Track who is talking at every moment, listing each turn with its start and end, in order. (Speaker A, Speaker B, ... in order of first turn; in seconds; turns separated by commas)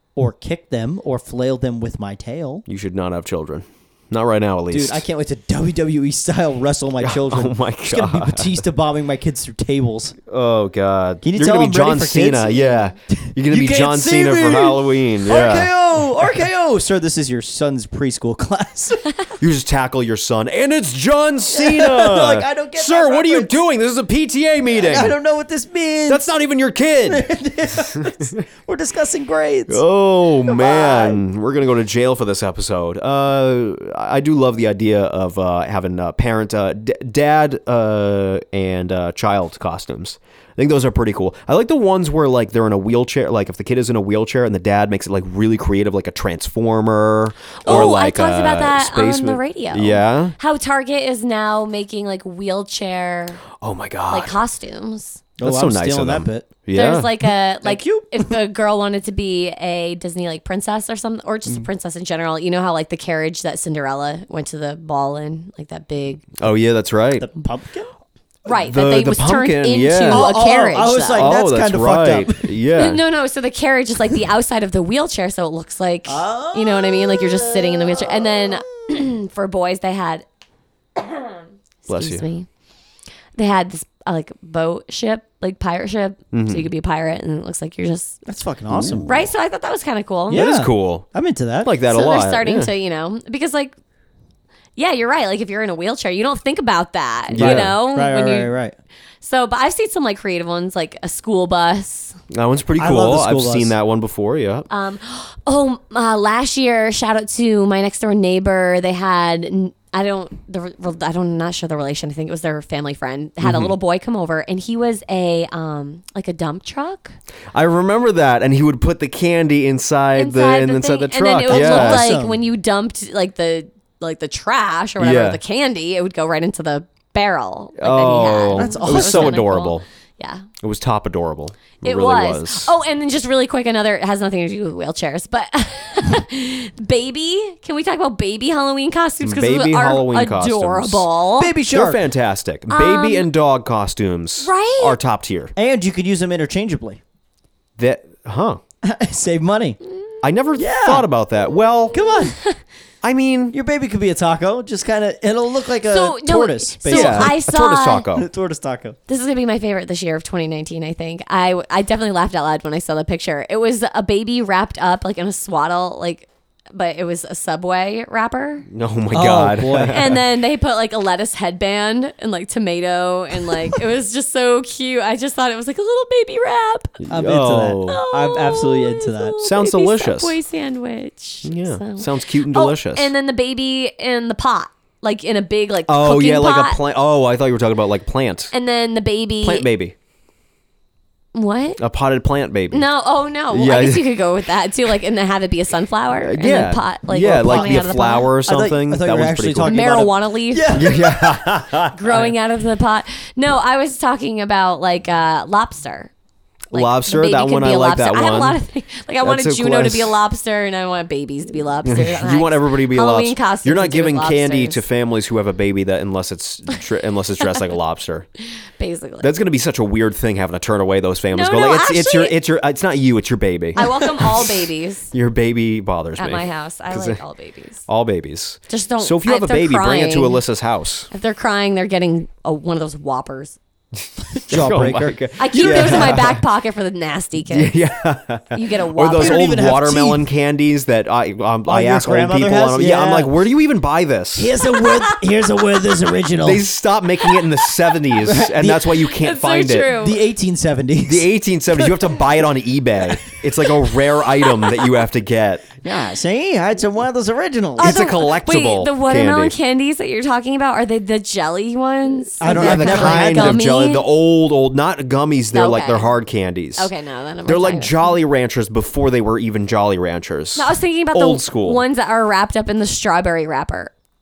Speaker A: 0.2-2.6, Speaker B: 2.7-5.0, Speaker A: 4.7-10.2, Speaker B: 7.0-8.6, Speaker B: 10.3-15.7, Speaker A: 11.2-19.1, Speaker B: 19.4-25.2, Speaker A: 21.5-23.6, Speaker A: 24.7-26.3, Speaker B: 26.1-27.3, Speaker A: 27.1-29.8, Speaker B: 27.8-28.3, Speaker B: 29.7-50.4, Speaker A: 30.5-31.2, Speaker C: 47.6-53.5, Speaker B: 53.5-54.4, Speaker C: 54.1-55.2, Speaker A: 55.4-56.5, Speaker B: 55.4-57.2, Speaker C: 56.7-66.4, Speaker A: 57.6-58.3, Speaker B: 66.4-67.3, Speaker A: 67.2-67.9, Speaker C: 68.5-71.3, Speaker B: 68.5-70.3, Speaker A: 70.1-72.5, Speaker B: 71.1-73.0, Speaker C: 72.8-80.2, Speaker A: 76.1-78.7, Speaker C: 81.0-82.5, Speaker B: 81.9-82.2, Speaker C: 83.4-88.2, Speaker B: 86.3-86.7, Speaker A: 88.3-89.1, Speaker B: 88.7-89.2, Speaker C: 89.1-90.4, Speaker A: 90.3-91.7, Speaker B: 90.3-91.1, Speaker B: 91.6-92.7, Speaker C: 91.9-93.7, Speaker C: 94.8-98.5, Speaker B: 97.3-97.7, Speaker A: 97.4-98.8, Speaker C: 99.2-102.2, Speaker B: 102.3-104.7, Speaker A: 102.8-103.7, Speaker C: 104.7-117.2, Speaker B: 113.4-113.7, Speaker B: 117.5-122.1, Speaker C: 120.2-130.5, Speaker A: 121.5-122.4, Speaker B: 125.0-125.4, Speaker B: 127.8-129.8, Speaker A: 128.6-129.4, Speaker B: 130.6-132.7, Speaker C: 131.8-141.5, Speaker B: 139.2-141.1, Speaker A: 141.4-142.0, Speaker B: 141.7-145.5, Speaker C: 142.7-143.3, Speaker C: 144.4-145.0, Speaker A: 145.6-147.0, Speaker B: 147.8-148.6, Speaker A: 148.8-149.8, Speaker B: 150.2-152.0, Speaker A: 150.6-151.1, Speaker A: 151.9-152.4, Speaker C: 152.1-152.6, Speaker B: 153.0-153.6, Speaker A: 153.5-157.4, Speaker C: 155.8-158.1, Speaker B: 156.9-158.3, Speaker A: 158.1-159.0, Speaker C: 159.1-168.7, Speaker B: 168.7-170.2, Speaker A: 169.1-170.0, Speaker C: 169.9-177.0, Speaker B: 177.0-178.0, Speaker A: 177.1-179.4, Speaker C: 177.9-186.8, Speaker B: 179.4-180.4, Speaker B: 181.4-183.1, Speaker B: 185.9-188.5, Speaker C: 188.5-189.7, Speaker B: 189.4-189.9, Speaker C: 191.3-191.8, Speaker B: 191.8-192.9, Speaker C: 192.7-198.3, Speaker B: 193.5-194.1, Speaker B: 196.2-199.8, Speaker A: 197.2-197.9, Speaker A: 198.4-202.3, Speaker C: 199.6-200.9, Speaker B: 200.7-201.9, Speaker C: 201.9-206.1, Speaker B: 206.7-208.6, Speaker C: 206.7-214.8, Speaker B: 209.2-210.2, Speaker B: 211.8-218.3, Speaker C: 218.8-219.3, Speaker B: 219.2-224.6, Speaker C: 221.3-222.4, Speaker C: 223.8-225.1, Speaker B: 225.1-227.2, Speaker C: 226.2-227.8, Speaker B: 227.9-231.1, Speaker C: 228.7-230.4, Speaker C: 231.1-233.6, Speaker A: 234.3-236.3, Speaker B: 234.5-236.4, Speaker C: 235.4-237.8, Speaker B: 237.5-244.5, Speaker C: 238.5-239.5, Speaker A: 239.2-240.2, Speaker A: 241.7-243.3, Speaker A: 244.3-246.7, Speaker C: 244.8-245.1, Speaker B: 246.4-249.9, Speaker C: 247.2-247.9, Speaker A: 248.2-249.1, Speaker C: 248.8-250.2, Speaker A: 249.9-252.2, Speaker B: 251.1-255.7, Speaker A: 255.8-258.0, Speaker C: 257.8-264.1, Speaker B: 257.8-259.6, Speaker A: 262.4-263.6, Speaker B: 262.5-266.9, Speaker C: 265.5-266.2, Speaker C: 266.8-268.2, Speaker B: 267.5-271.8, Speaker C: 270.6-273.9